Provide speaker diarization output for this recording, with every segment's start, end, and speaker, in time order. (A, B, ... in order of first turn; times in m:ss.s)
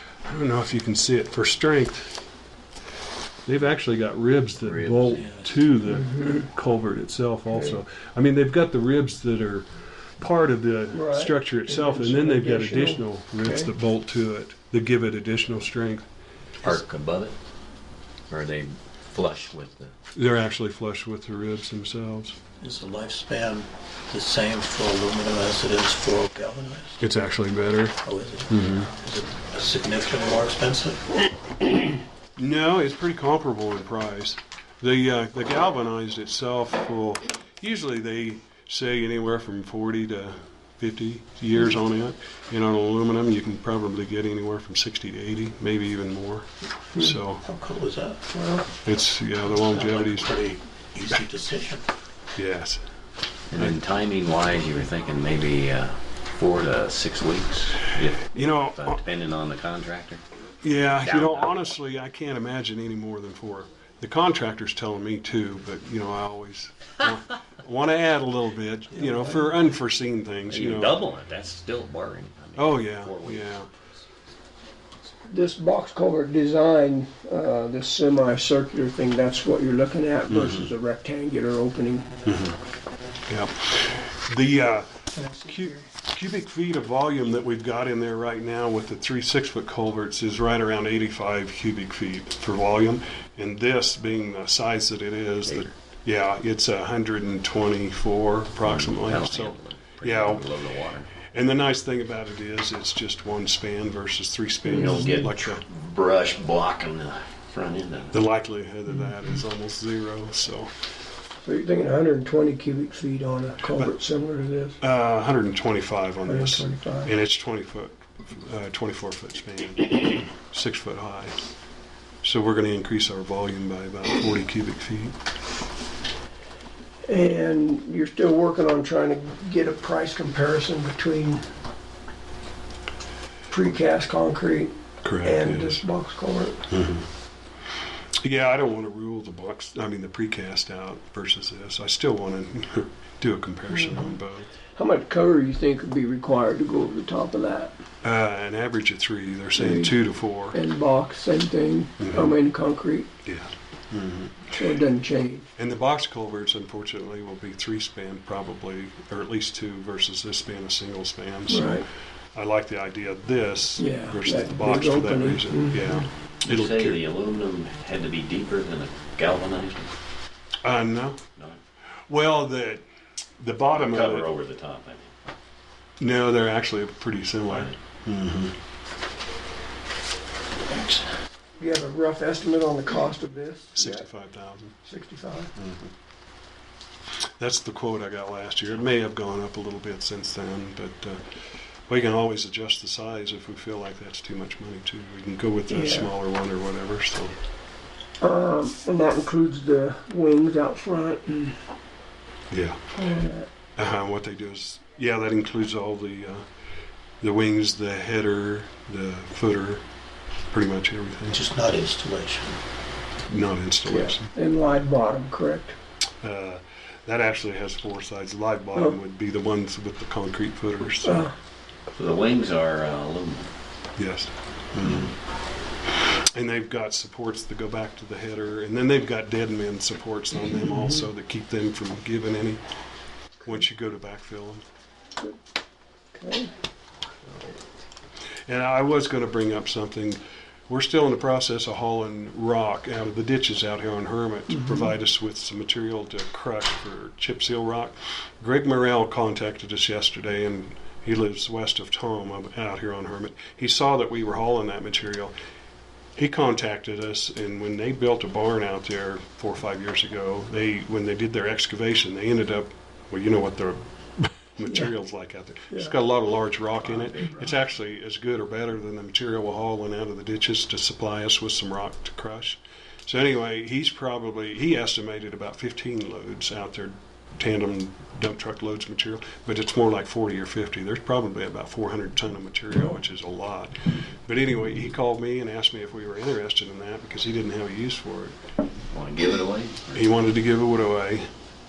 0:00.2-0:02.2 A
0:03.4-0:16.0 A
0:04.6-0:05.4 B
0:05.8-0:06.4 C
0:07.5-0:07.8 C
0:10.9-0:13.7 C
0:16.6-0:17.4 B
0:18.3-0:19.9 B
0:20.1-0:22.4 A
0:22.6-0:27.0 D
0:27.0-0:28.9 A
0:28.0-0:31.0 D
0:32.4-0:47.4 A
0:47.4-0:48.7 D
0:48.8-0:50.3 A
0:49.5-0:51.9 D
0:52.4-0:52.8 A
0:53.5-1:00.2 B
0:58.3-0:59.0 A
1:00.6-1:11.0 A
1:01.0-1:01.6 B
1:09.0-1:09.3 D
1:10.5-1:13.8 B
1:12.6-1:13.7 A
1:15.3-1:22.1 C
1:20.3-1:20.7 A
1:22.2-1:22.6 A
1:23.3-1:40.5 A
1:25.1-1:25.8 C
1:35.4-1:35.7 B
1:38.6-1:41.1 B
1:41.3-1:45.6 A
1:44.7-1:48.2 B
1:44.8-1:45.2 C
1:48.1-1:50.7 A
1:51.4-1:54.8 C
1:54.8-2:01.4 A
1:56.2-1:57.1 C
2:02.2-2:05.1 A
2:07.1-2:11.4 C
2:13.5-2:16.6 C
2:15.0-2:15.8 A
2:16.7-2:17.1 A
2:18.2-2:24.5 A
2:23.7-2:24.1 C
2:24.7-2:27.7 C
2:28.0-2:30.6 A
2:29.5-2:30.0 C
2:30.5-2:33.1 C
2:32.0-2:32.4 A
2:33.2-2:34.5 A
2:34.5-2:35.5 C
2:35.6-2:41.8 A
2:41.5-2:41.8 C
2:42.3-2:47.0 A
2:43.8-2:46.0 C
2:46.4-2:49.9 B
2:50.6-2:51.2 A
2:52.1-2:52.8 A
2:53.4-2:54.3 A
2:53.7-2:55.1 B
2:56.0-2:58.5 A
2:57.5-2:57.8 B
3:00.7-3:01.0 D
3:01.6-3:04.1 C
3:03.7-3:04.8 A
3:04.8-3:05.5 C
3:05.5-3:05.9 A
3:07.4-3:11.4 A
3:11.9-3:17.3 A
3:15.7-3:16.1 C
3:18.2-3:21.6 C
3:22.5-3:22.9 A
3:22.9-3:23.5 C
3:23.8-3:26.4 A
3:27.2-3:29.8 A
3:30.5-3:31.4 A
3:31.3-3:32.6 D
3:33.3-3:34.3 A
3:33.9-3:35.7 C
3:36.2-3:41.3 A
3:41.0-3:41.3 C
3:41.9-3:43.5 B
3:44.0-3:45.1 A
3:46.0-3:52.6 A
3:53.4-3:54.6 A
3:56.1-3:56.5 C
3:58.5-4:15.3 A
4:16.2-4:48.4 A
4:24.6-4:24.9 C
4:26.8-4:27.6 B
4:48.9-4:50.1 B
4:49.9-4:51.3 A